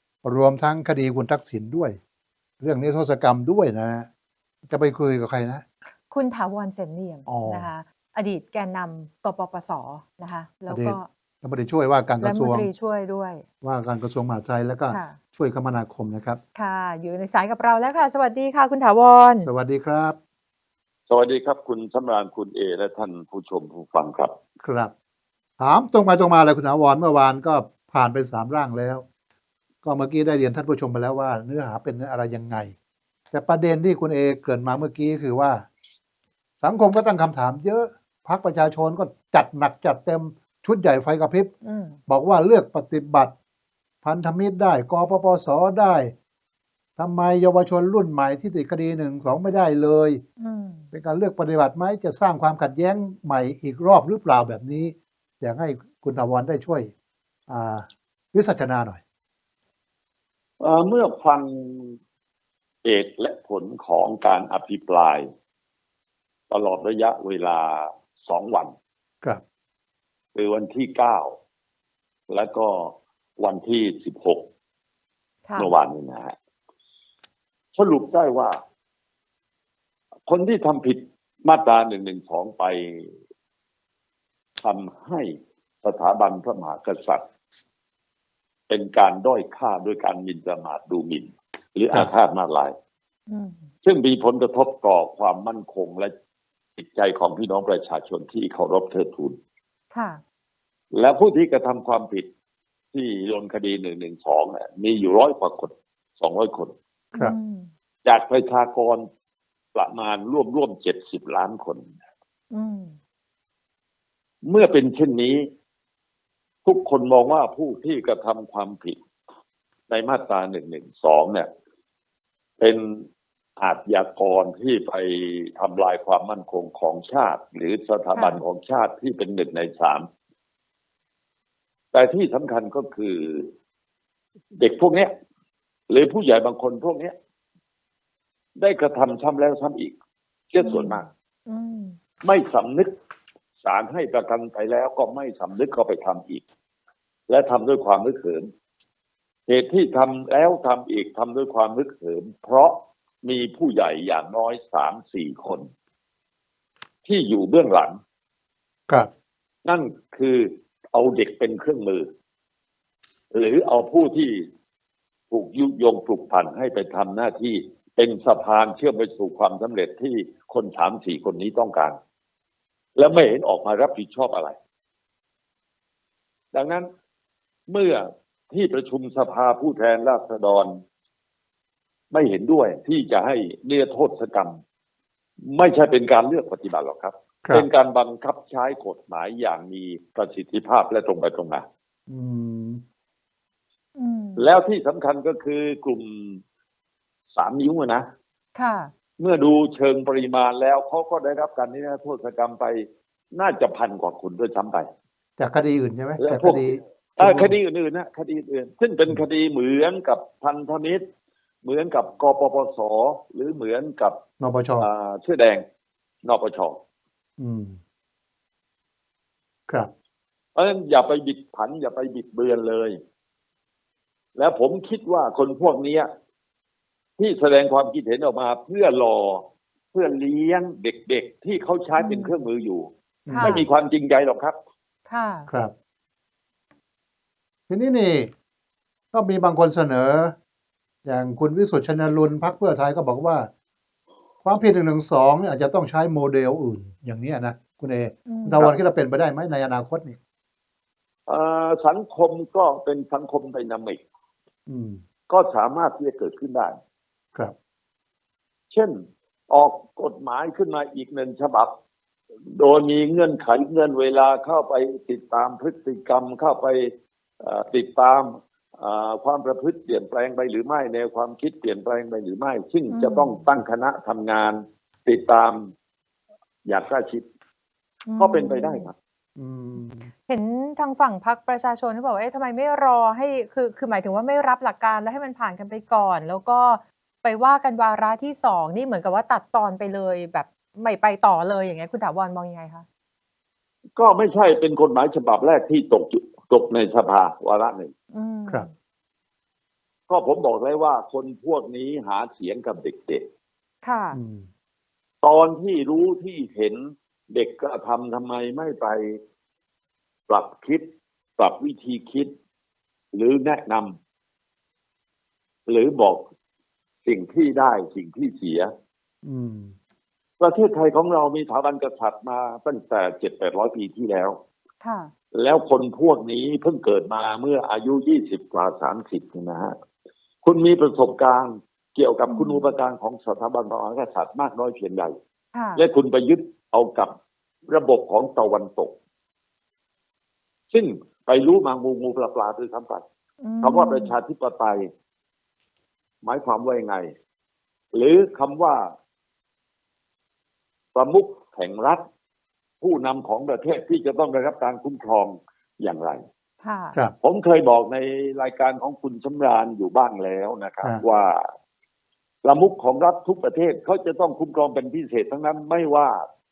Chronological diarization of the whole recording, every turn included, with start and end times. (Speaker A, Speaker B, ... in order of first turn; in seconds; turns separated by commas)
Speaker A: 0.2-2.0, Speaker A: 2.6-4.1, Speaker A: 4.7-5.6, Speaker B: 6.1-11.1, Speaker A: 7.3-7.7, Speaker A: 10.7-12.7, Speaker B: 12.2-13.4, Speaker A: 13.6-16.4, Speaker B: 14.9-15.2, Speaker B: 16.6-19.5, Speaker A: 19.4-20.2, Speaker C: 21.1-24.3, Speaker A: 24.6-24.9, Speaker A: 25.6-29.1, Speaker A: 29.8-32.7, Speaker A: 33.3-35.7, Speaker A: 36.6-41.5, Speaker B: 41.6-42.0, Speaker A: 42.1-43.3, Speaker A: 44.0-46.1, Speaker A: 47.0-50.2, Speaker B: 50.4-50.9, Speaker A: 50.9-56.9, Speaker A: 57.5-59.0, Speaker C: 60.6-62.0, Speaker C: 62.8-65.3, Speaker C: 66.5-68.7, Speaker C: 70.3-71.4, Speaker C: 72.3-74.4, Speaker B: 75.5-75.7, Speaker C: 75.6-76.3, Speaker C: 77.8-78.6, Speaker C: 80.3-83.2, Speaker C: 84.6-87.2, Speaker C: 88.7-92.7, Speaker B: 93.3-93.7, Speaker C: 93.8-96.1, Speaker C: 96.8-99.4, Speaker B: 99.9-100.2, Speaker C: 100.9-102.3, Speaker C: 102.9-106.7, Speaker B: 107.1-107.7, Speaker C: 108.0-109.1, Speaker C: 109.7-111.9, Speaker B: 112.5-113.0, Speaker C: 114.5-115.5, Speaker C: 116.7-119.0, Speaker C: 119.9-121.5, Speaker C: 122.6-130.1, Speaker B: 128.1-128.4, Speaker C: 131.9-133.5, Speaker C: 134.6-135.1, Speaker C: 135.9-137.1, Speaker C: 138.6-140.0, Speaker C: 140.5-141.1, Speaker B: 140.6-142.0, Speaker C: 142.2-142.9, Speaker C: 143.6-146.4, Speaker C: 147.3-148.5, Speaker C: 149.5-155.7, Speaker C: 157.1-158.0, Speaker C: 159.7-162.1, Speaker C: 163.3-164.5, Speaker C: 165.3-172.0, Speaker C: 173.0-174.6, Speaker C: 176.5-176.9, Speaker C: 177.7-180.8, Speaker C: 182.1-184.6, Speaker C: 185.5-191.6, Speaker A: 192.1-192.8, Speaker B: 194.0-194.5, Speaker C: 194.4-196.4, Speaker C: 197.3-198.1, Speaker B: 198.6-198.9, Speaker C: 199.2-204.9, Speaker A: 205.4-207.6, Speaker C: 206.2-211.0, Speaker C: 211.6-214.2, Speaker A: 214.4-214.9, Speaker C: 214.8-215.6, Speaker C: 216.2-216.8, Speaker A: 217.4-217.8, Speaker C: 220.6-223.0, Speaker C: 224.4-226.1, Speaker C: 227.2-234.6, Speaker B: 232.0-232.4, Speaker A: 233.3-233.7, Speaker B: 233.3-233.6, Speaker B: 235.1-235.5, Speaker A: 237.7-238.3, Speaker A: 239.1-240.3, Speaker A: 241.1-243.5, Speaker A: 244.4-250.2, Speaker B: 248.3-248.7, Speaker C: 251.3-254.0, Speaker A: 254.7-255.0, Speaker C: 255.3-256.8, Speaker C: 258.7-259.0, Speaker C: 259.5-261.7, Speaker C: 262.5-275.7, Speaker B: 272.9-273.4, Speaker C: 276.7-277.3, Speaker B: 278.1-278.9, Speaker C: 278.2-278.9, Speaker A: 279.4-280.1, Speaker B: 280.3-292.9, Speaker C: 294.0-297.9, Speaker B: 298.1-298.7, Speaker C: 300.1-303.3, Speaker B: 303.8-304.2, Speaker A: 304.1-304.5, Speaker C: 305.2-309.2, Speaker C: 310.3-312.3, Speaker C: 313.1-314.0, Speaker C: 315.7-316.3, Speaker C: 317.0-318.7, Speaker A: 319.2-319.7, Speaker C: 320.4-324.4, Speaker B: 324.8-325.1, Speaker C: 325.3-329.8, Speaker C: 330.4-335.1, Speaker B: 332.3-332.7, Speaker B: 335.5-335.8, Speaker C: 335.8-337.1, Speaker C: 337.7-339.0, Speaker C: 340.7-343.0, Speaker B: 343.4-344.1, Speaker C: 343.6-344.9, Speaker C: 346.2-347.1, Speaker C: 347.9-348.9, Speaker C: 350.9-352.0, Speaker C: 352.8-356.2, Speaker B: 356.6-357.0, Speaker C: 357.2-361.5, Speaker C: 362.4-366.2